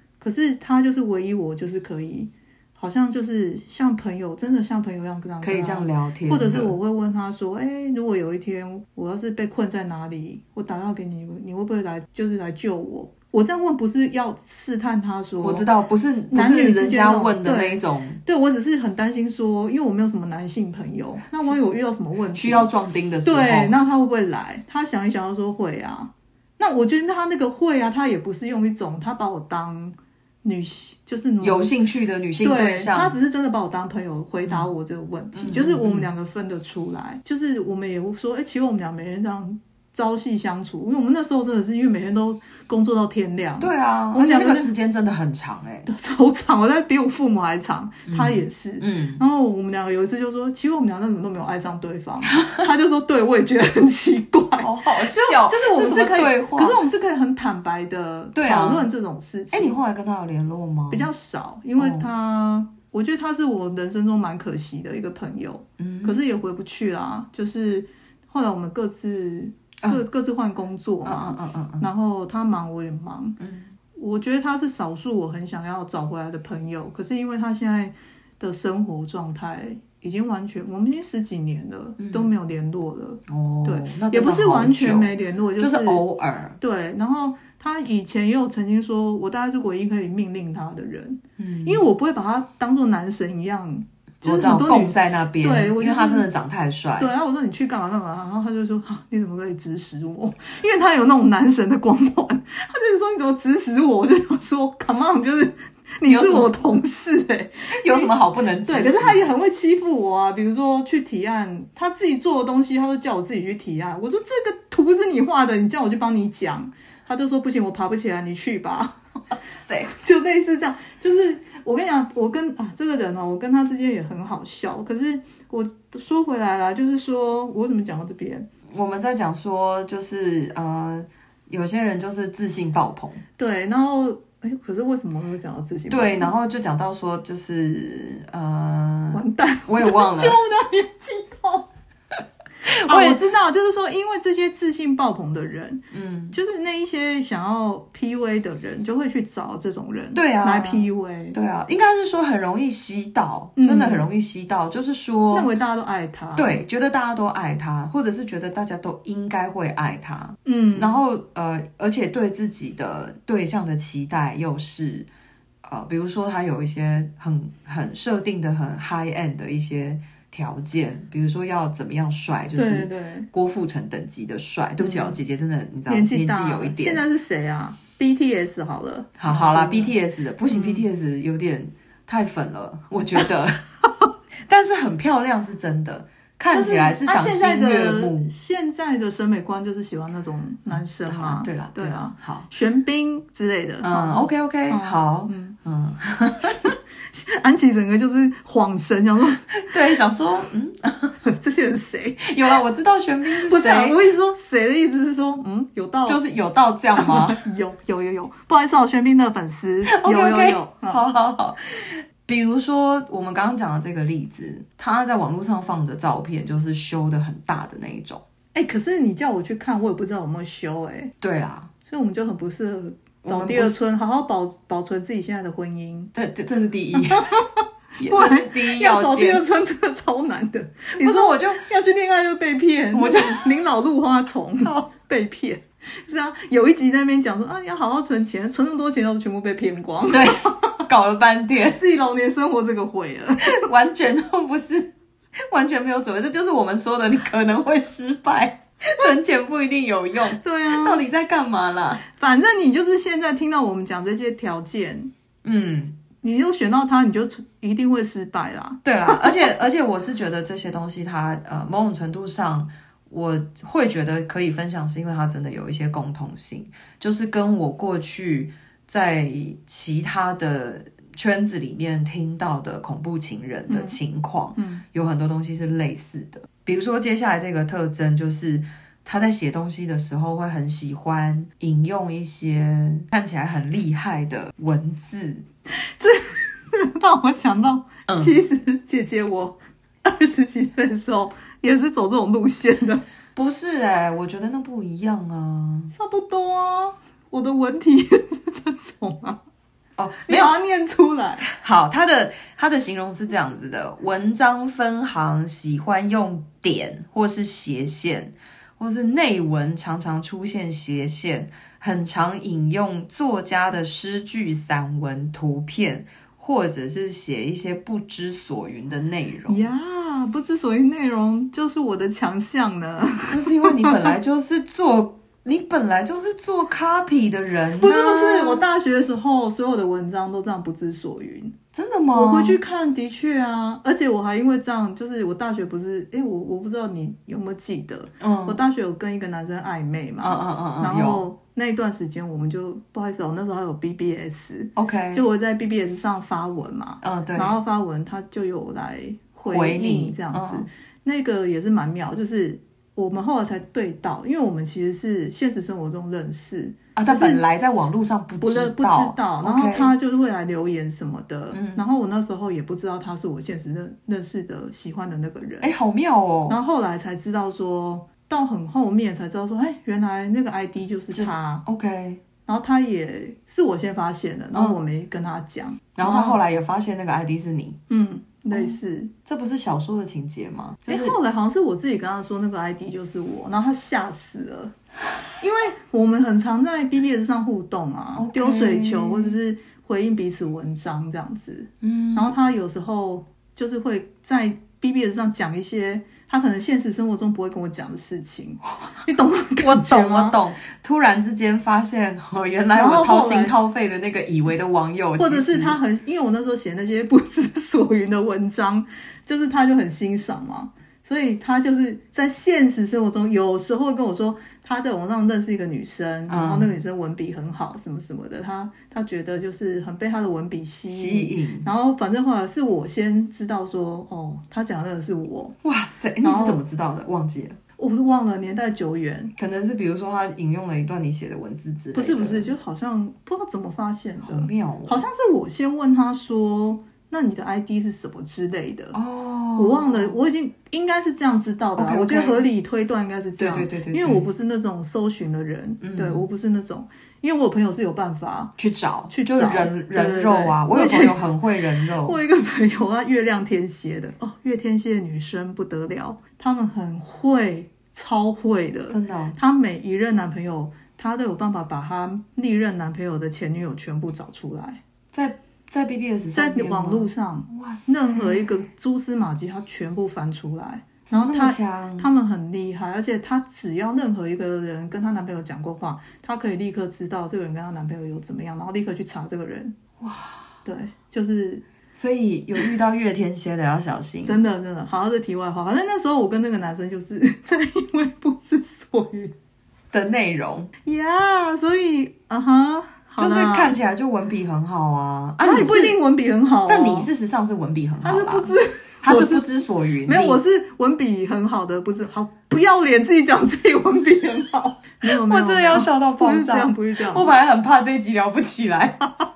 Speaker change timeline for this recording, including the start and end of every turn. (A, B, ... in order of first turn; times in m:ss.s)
0:00.2-0:15.7 A
0:05.4-0:06.8 B
0:15.4-0:18.2 B
0:16.3-0:22.7 A
0:22.3-0:23.7 B
0:23.2-0:31.7 A
0:31.4-0:33.2 B
0:32.4-0:44.7 A
0:35.4-0:36.1 B
0:43.6-0:45.9 B
0:45.9-0:59.8 A
0:48.1-0:49.2 B
0:54.6-0:56.8 B
0:58.4-0:58.9 B
0:59.5-1:01.1 B
1:00.9-1:13.4 A
1:01.8-1:02.1 B
1:05.8-1:06.2 B
1:11.0-1:11.9 B
1:13.4-1:13.7 B
1:14.0-1:26.0 A
1:22.0-1:22.3 B
1:23.3-1:26.6 B
1:26.6-1:36.3 A
1:31.4-1:31.8 B
1:34.2-1:37.1 B
1:37.0-1:48.1 A
1:46.0-1:46.8 B
1:47.8-1:49.3 B
1:48.6-1:59.0 A
1:59.9-2:08.5 A
2:08.7-2:13.2 B
2:13.4-2:16.3 A
2:15.9-2:20.4 B
2:19.1-2:21.7 A
2:22.7-2:23.2 B
2:22.8-2:31.4 A
2:25.9-2:26.4 B
2:30.2-2:35.5 B
2:33.6-2:34.1 A
2:35.3-2:36.6 A
2:36.4-2:45.1 B
2:40.5-2:41.0 A
2:45.6-2:57.0 B
2:52.6-2:53.3 A
2:54.8-2:55.2 A
2:55.9-2:59.9 A
2:59.2-3:03.6 B
3:00.5-3:00.8 A
3:04.5-3:08.3 B
3:06.5-3:15.6 A
3:10.7-3:12.5 B
3:13.8-3:16.7 B
3:17.1-3:19.5 A
3:19.5-3:21.2 B
3:21.2-3:22.4 A
3:22.2-3:24.0 B
3:23.4-3:26.2 A
3:26.1-3:27.4 B
3:27.0-3:31.0 A
3:29.9-3:38.2 B
3:38.5-3:41.1 A
3:41.2-3:41.7 B
3:41.8-3:46.1 A
3:43.2-3:43.9 B
3:46.1-3:47.3 B
3:47.0-4:00.8 A
3:48.0-3:49.4 B
3:51.0-3:51.6 B
3:52.9-3:53.5 B
4:00.1-4:01.8 B
4:01.7-4:03.6 A
4:03.5-4:04.9 B
4:05.5-4:12.0 B
4:10.4-4:11.0 A
4:12.1-4:15.1 A
4:15.4-4:16.0 B
4:16.2-4:19.5 A
4:18.8-4:45.4 B
4:33.7-4:34.0 A
4:34.6-4:34.8 A
4:45.8-4:53.0 A
4:48.1-4:48.4 B
4:53.4-4:55.9 B
4:55.9-4:59.4 A
5:00.0-5:00.6 B
5:00.3-5:01.5 A
5:01.5-5:19.7 B
5:19.5-5:24.1 A
5:23.3-5:28.7 B
5:27.8-5:31.6 A
5:31.7-5:32.6 B
5:32.1-5:57.4 A
5:38.2-5:38.6 B
5:40.2-5:41.2 B
5:44.8-5:45.2 B
5:47.0-5:47.6 B
5:49.4-5:50.7 B
5:57.0-5:59.9 B
5:58.4-6:05.7 A
6:01.5-6:01.8 B
6:05.6-6:06.6 B
6:06.5-6:11.6 A
6:11.1-6:12.2 B
6:12.5-6:16.4 A
6:16.0-6:17.8 B
6:17.9-6:19.1 A
6:18.5-6:21.2 B
6:20.9-6:24.7 A
6:25.4-6:40.4 A
6:28.2-6:29.4 B
6:31.8-6:32.3 B
6:39.5-6:45.8 B
6:42.7-6:43.5 A
6:45.2-7:05.6 A
6:56.3-6:56.7 B
7:00.9-7:01.7 B
7:05.6-7:07.6 B
7:06.2-7:06.6 A
7:07.8-7:09.3 A
7:09.4-7:12.6 B
7:11.9-7:19.0 A
7:14.2-7:15.0 B
7:18.9-7:20.2 B
7:19.6-7:28.5 A
7:21.8-7:22.4 B
7:23.4-7:24.3 B
7:25.8-7:26.2 B
7:28.6-7:32.2 B
7:29.1-7:31.2 A
7:31.9-7:44.8 A
7:38.9-7:39.4 B
7:45.1-7:48.6 B
7:46.3-7:59.7 A
7:51.1-7:52.1 B
8:00.0-8:00.5 B
8:00.6-8:01.6 A
8:01.9-8:04.4 B
8:04.2-8:09.3 A
8:09.9-8:10.7 B
8:10.8-8:13.8 A
8:13.2-8:16.0 B
8:15.4-8:17.1 A
8:16.7-8:20.4 B
8:18.0-8:19.5 A
8:20.0-8:27.3 A
8:25.0-8:29.1 B